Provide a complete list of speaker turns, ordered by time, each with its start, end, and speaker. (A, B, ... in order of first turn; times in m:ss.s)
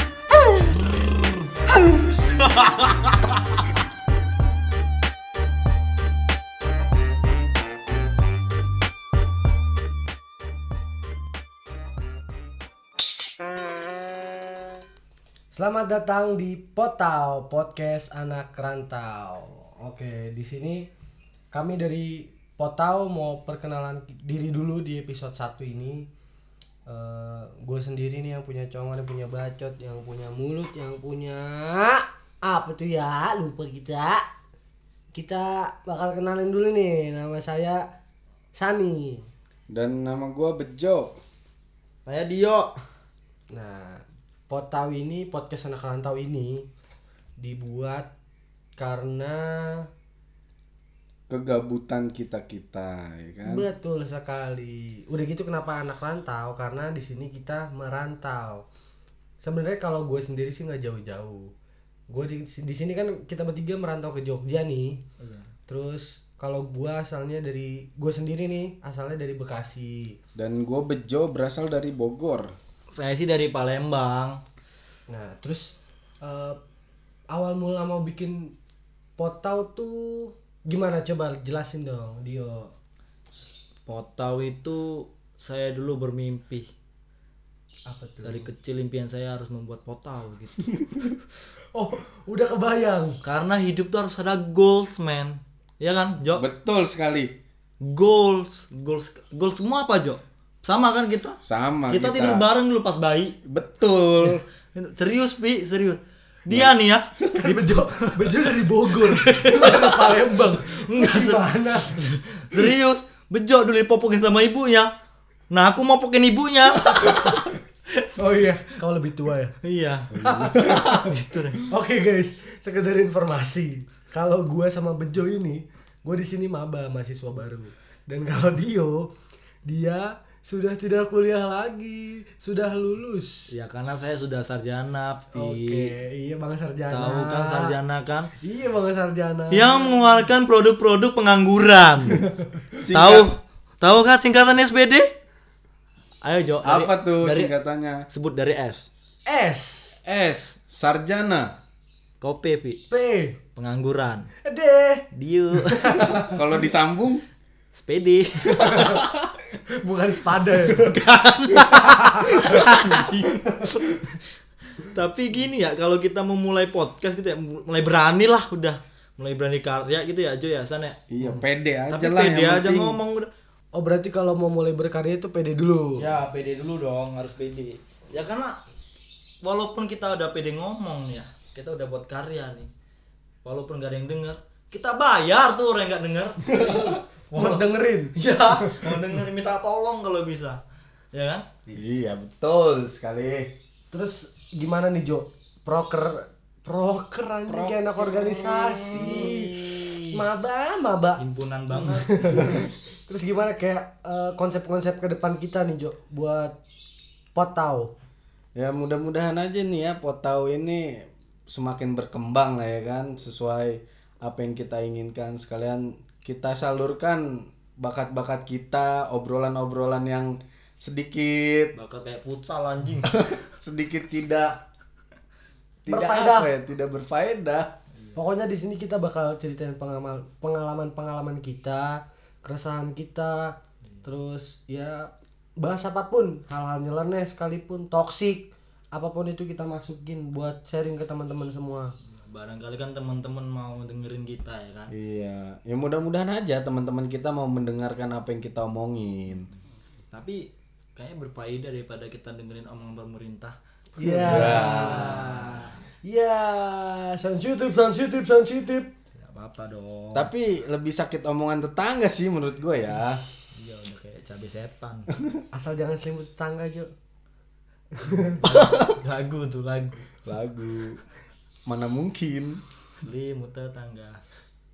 0:02.0-0:03.2 A
0:15.5-0:20.9 B
0:21.5-0:26.1 B
0:26.9-0:34.2 B
0:35.1-0:37.8 B
0:38.6-0:39.3 B
0:39.7-0:41.1 C
0:42.1-0:42.8 A
0:43.5-0:46.6 B
0:47.4-0:48.1 B
0:48.8-0:49.8 B
0:51.3-0:53.6 C
0:53.5-0:58.7 B
0:59.4-1:01.5 B
1:02.1-1:05.0 B
1:05.2-1:05.5 A
1:05.7-1:10.2 B
1:10.4-1:12.5 C
1:12.9-1:14.4 A
1:15.1-1:16.6 B
1:17.3-1:18.5 B
1:19.2-1:22.7 B
1:23.9-1:26.7 A
1:27.9-1:28.5 B
1:28.2-1:30.7 A
1:31.7-1:33.2 B
1:33.2-1:36.4 A
1:36.3-1:37.3 C
1:37.8-1:41.4 A
1:41.4-1:42.5 C
1:41.9-1:43.4 A
1:43.4-1:44.4 C
1:44.2-1:54.9 A
1:47.4-1:52.0 B
1:55.5-1:58.6 A
1:56.9-1:57.3 B
1:58.2-1:59.5 B
1:59.6-2:00.2 A
2:00.2-2:01.0 B
2:00.4-2:00.8 C
2:00.8-2:01.6 A
2:01.7-2:09.1 B
2:09.6-2:13.5 B
2:13.5-2:16.0 A
2:15.4-2:17.8 B
2:16.9-2:18.3 A
2:18.4-2:20.3 B
2:19.5-2:22.2 A
2:22.7-2:23.3 C
2:22.9-2:25.1 A
2:26.2-2:27.6 A
2:26.6-2:28.0 C
2:28.1-2:28.9 A
2:29.3-2:30.0 B
2:30.0-2:31.5 C
2:32.2-2:32.8 A
2:32.9-2:33.4 B
2:33.6-2:34.3 A
2:34.4-2:35.1 B
2:35.1-2:36.1 A
2:35.6-2:36.4 B
2:36.3-2:37.2 C
2:37.7-2:39.1 A
2:38.5-2:39.0 B
2:39.8-2:41.0 B
2:40.7-2:44.2 A
2:41.7-2:42.6 B
2:44.8-2:53.3 A
2:51.1-2:53.0 C
2:53.7-2:56.1 B
2:56.0-2:58.6 A
2:59.4-3:02.7 A
3:03.4-3:10.6 A
3:06.5-3:08.8 B
3:11.1-3:11.4 A
3:11.7-3:13.5 C
3:13.9-3:19.6 B
3:18.4-3:19.5 C
3:18.6-3:20.2 A
3:20.1-3:26.6 B
3:21.2-3:22.5 A
3:27.3-3:27.9 B
3:28.6-3:41.7 C
3:41.7-3:43.1 A
3:43.0-3:44.6 C
3:45.8-3:47.7 C
3:45.9-3:46.5 B
3:48.2-4:01.9 B
4:02.3-4:04.9 A
4:04.9-4:09.5 C
4:10.1-4:15.7 A
4:14.0-4:18.9 B
4:14.2-4:15.3 C
4:19.2-4:20.3 A
4:20.2-4:23.2 C
4:23.6-4:25.1 A
4:25.5-4:26.9 B
4:28.0-4:28.4 B
4:28.4-4:30.0 A
4:30.3-4:31.0 C
4:31.7-4:32.6 C
4:33.0-4:34.2 A